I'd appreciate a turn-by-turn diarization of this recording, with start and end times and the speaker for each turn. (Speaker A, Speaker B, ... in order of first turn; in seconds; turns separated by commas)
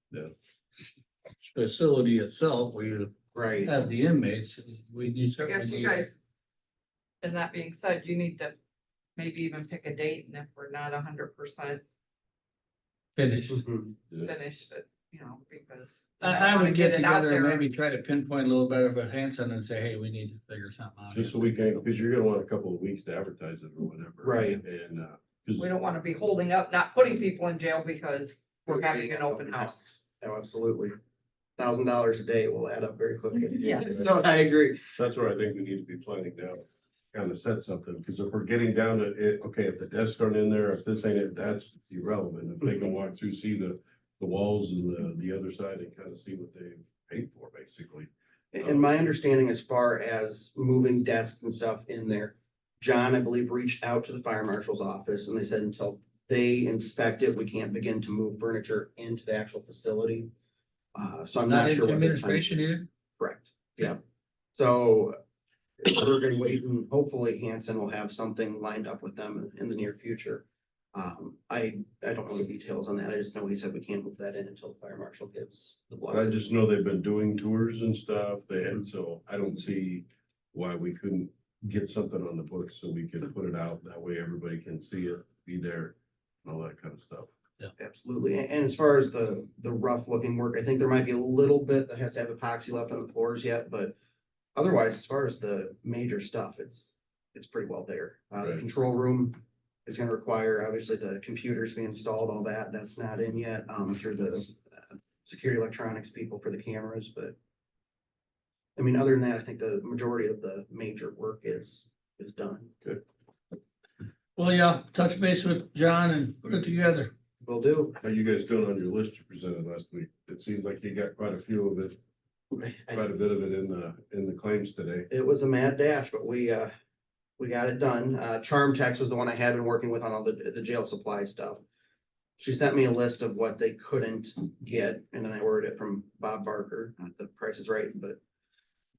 Speaker A: 1.5-6.0, Speaker B: 3.3-3.7, Speaker C: 5.4-6.1, Speaker C: 7.2-8.5, Speaker C: 9.2-11.8, Speaker A: 13.2-13.6, Speaker B: 13.5-13.9, Speaker C: 14.2-17.7, Speaker A: 16.2-21.8, Speaker D: 21.1-25.6, Speaker B: 24.2-24.6, Speaker C: 25.6-29.8, Speaker B: 28.7-30.9, Speaker B: 31.6-34.8, Speaker C: 33.6-33.9, Speaker D: 35.0-48.9, Speaker B: 48.5-60.3, Speaker B: 60.9-62.6, Speaker A: 61.5-62.9, Speaker B: 63.2-64.0, Speaker B: 64.5-65.2, Speaker B: 65.8-76.4, Speaker D: 76.1-87.3, Speaker B: 87.8-94.0, Speaker B: 94.5-107.3, Speaker B: 108.8-112.8, Speaker A: 114.3-117.1, Speaker B: 117.4-118.0, Speaker D: 118.0-122.0, Speaker B: 122.5-123.0, Speaker D: 122.9-125.1, Speaker B: 125.1-126.7, Speaker B: 127.4-131.6, Speaker B: 132.4-138.2